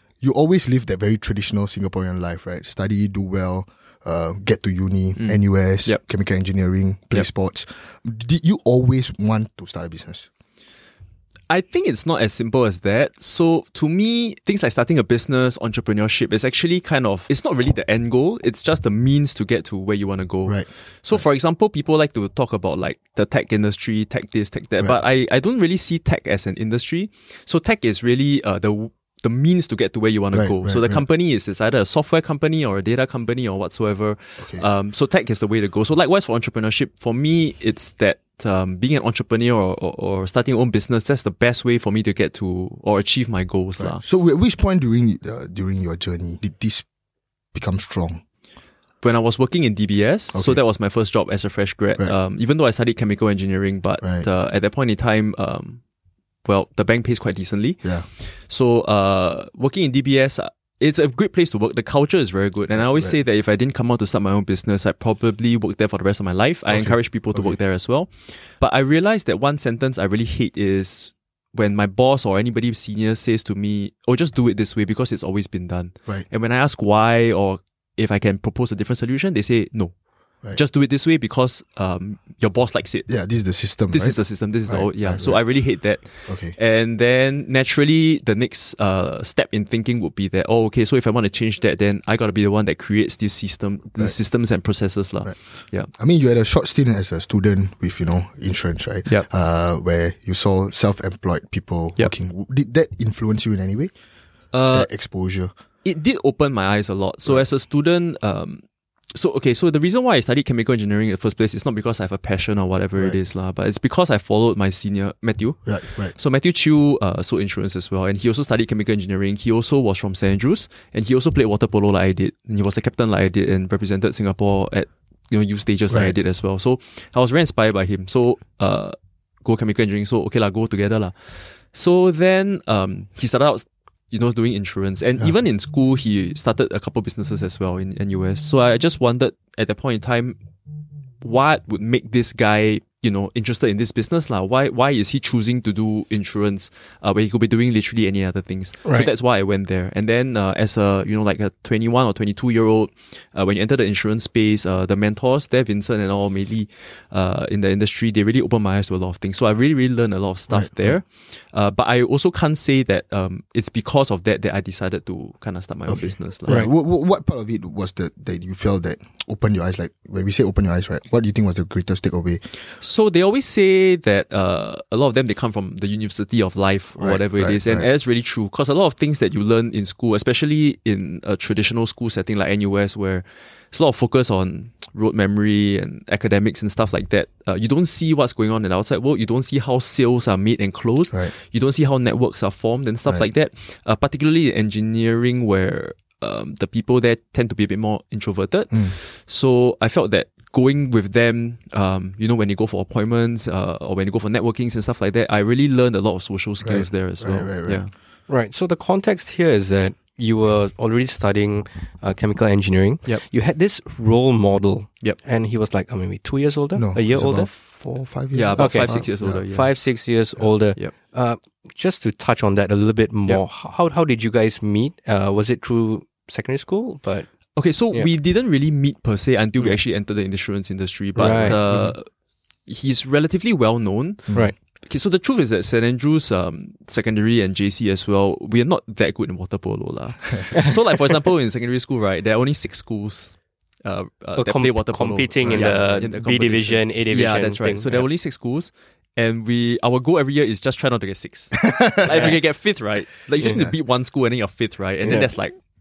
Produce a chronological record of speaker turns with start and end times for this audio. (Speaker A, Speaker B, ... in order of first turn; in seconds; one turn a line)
Speaker A: 0.2-10.3
Speaker B: 5.2-6.0
Speaker B: 11.5-44.0
Speaker A: 20.5-21.2
Speaker A: 30.3-31.0
Speaker A: 34.4-34.6
Speaker A: 43.8-46.9
Speaker A: 47.5-48.2
Speaker B: 49.0-55.8
Speaker A: 50.3-50.6
Speaker B: 56.5-79.9
Speaker A: 62.8-63.1
Speaker A: 66.7-67.5
Speaker B: 80.5-83.1
Speaker A: 83.1-85.4
Speaker B: 83.9-95.9
Speaker A: 86.2-86.6
Speaker A: 95.9-103.9
Speaker B: 104.5-104.9
Speaker A: 104.7-105.5
Speaker B: 105.8-140.4
Speaker A: 115.7-116.2
Speaker B: 141.2-166.7
Speaker C: 148.8-149.1
Speaker A: 160.5-161.0
Speaker A: 165.9-172.6
Speaker B: 172.8-207.9
Speaker A: 177.0-177.9
Speaker A: 206.6-207.8
Speaker C: 208.3-217.5
Speaker A: 216.8-219.4
Speaker B: 218.3-219.7
Speaker C: 218.6-227.3
Speaker B: 227.6-232.1
Speaker C: 231.2-231.9
Speaker B: 232.7-255.6
Speaker A: 234.3-234.5
Speaker C: 244.4-248.1
Speaker A: 251.6-252.3
Speaker C: 252.1-252.3
Speaker C: 253.4-253.7